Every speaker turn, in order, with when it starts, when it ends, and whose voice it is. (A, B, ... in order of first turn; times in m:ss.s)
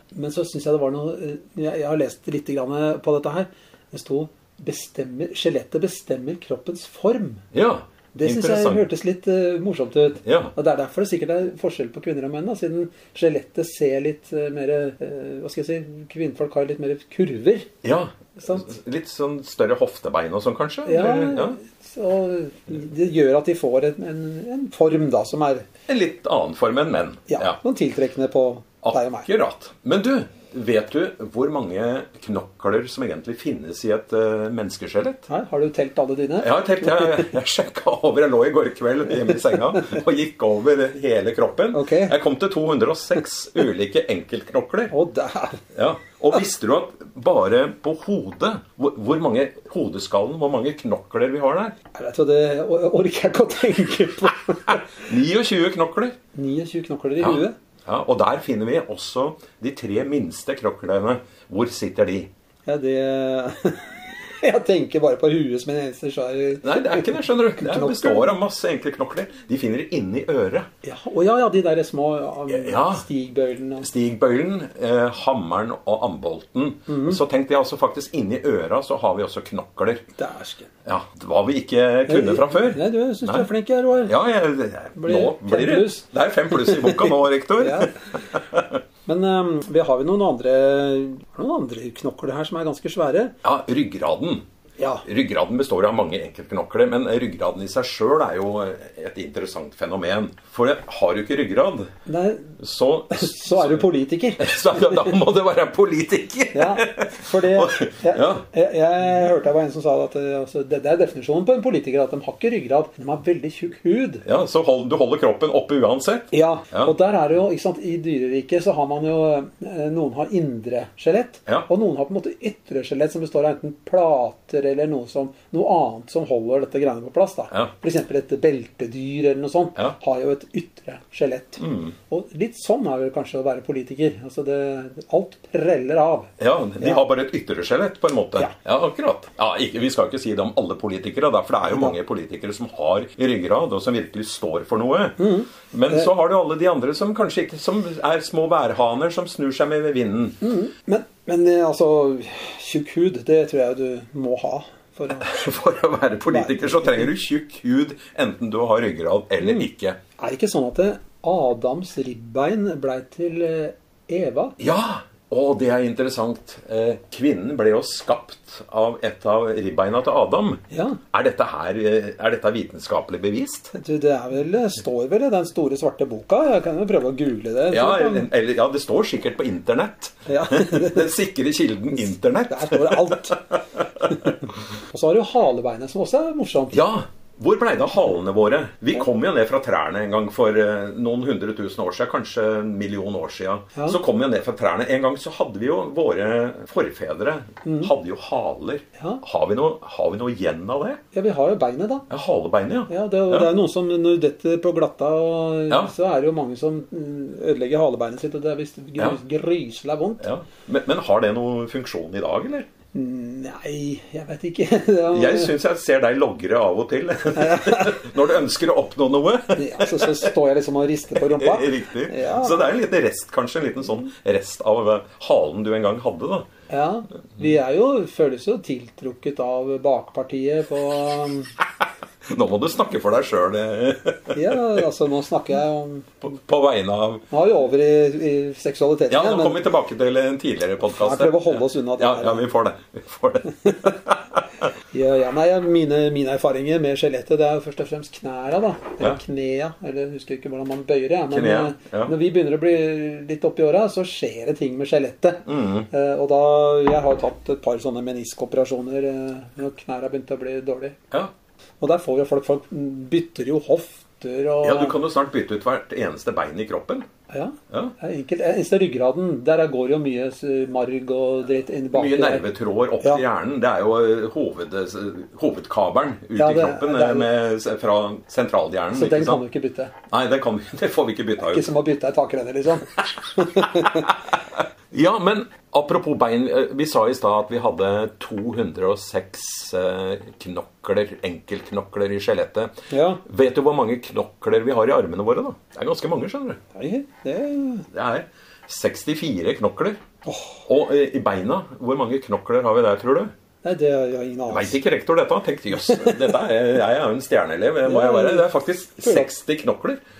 0:00.1-0:07.4 A
0:07.5-0:08.8 B
0:08.1-0:17.7 A
0:10.2-0:10.5 B
0:17.8-0:21.6 B
0:18.4-0:18.7 A
0:20.8-0:25.7 A
0:25.9-0:27.6 B
0:27.3-0:29.3 A
0:28.8-0:35.2 B
0:35.3-0:37.3 A
0:36.4-0:44.9 B
0:39.7-0:40.0 A
0:41.7-0:42.1 A
0:44.9-0:45.6 A
0:45.7-0:51.8 B
0:51.9-0:55.1 A
0:54.7-0:56.2 B
0:56.3-0:57.6 A
0:57.2-1:02.3 B
1:02.7-1:08.3 A
1:06.6-1:10.7 B
1:10.8-1:13.9 A
1:12.5-1:13.0 B
1:13.8-1:20.0 B
1:16.9-1:17.2 A
1:20.2-1:20.7 A
1:20.8-1:23.5 B
1:22.1-1:24.2 A
1:24.0-1:28.8 B
1:25.0-1:28.0 A
1:29.1-1:33.4 A
1:33.4-1:34.4 B
1:34.8-1:35.1 A
1:35.0-1:41.9 B
1:42.1-1:42.5 A
1:42.6-1:43.8 B
1:43.1-1:44.5 A
1:44.4-1:48.4 B
1:46.5-1:54.2 A
1:54.2-1:56.9 B
1:56.3-2:17.0 A
2:11.6-2:11.9 B
2:16.4-2:30.4 B
2:21.7-2:21.9 A
2:25.2-2:26.1 A
2:30.4-2:35.3 A
2:35.2-2:40.0 B
2:36.3-2:37.1 A
2:40.2-2:44.6 A
2:44.6-2:53.7 B
2:50.7-2:51.0 A
2:53.7-2:58.3 A
2:57.7-3:04.3 B
3:00.3-3:01.1 A
3:01.9-3:04.4 A
3:04.9-3:06.8 A
3:06.7-3:21.0 B
3:17.6-3:17.9 A
3:21.1-3:22.1 A
3:22.1-3:23.5 B
3:22.9-3:30.2 A
3:30.2-3:32.7 B
3:32.9-3:35.5 A
3:35.1-3:40.3 B
3:37.3-3:38.0 A
3:39.6-3:42.7 A
3:41.2-3:46.5 B
3:46.7-3:51.5 A
3:52.2-3:54.6 B
3:54.3-3:56.2 A
3:56.2-3:57.2 B
3:57.3-3:59.6 A
3:59.1-4:04.4 B
4:00.8-4:02.4 A
4:03.6-4:03.9 A
4:04.9-4:21.0 A
4:11.3-4:12.1 B
4:15.5-4:15.9 B
4:21.8-4:25.0 A
4:24.6-4:27.1 B
4:27.3-4:32.5 A
4:31.9-4:39.4 B
4:36.4-4:37.3 A
4:38.9-4:39.9 A
4:40.1-4:41.7 B
4:41.4-4:44.2 A
4:44.9-4:52.7 B
4:52.9-4:53.2 A
4:53.2-4:56.6 B
4:56.8-4:57.9 A
4:57.9-5:00.0 B
5:00.2-5:00.6 A
5:00.6-5:03.3 B
5:03.6-5:04.8 A
5:04.5-5:10.0 B
5:07.8-5:08.5 A
5:09.0-5:09.3 A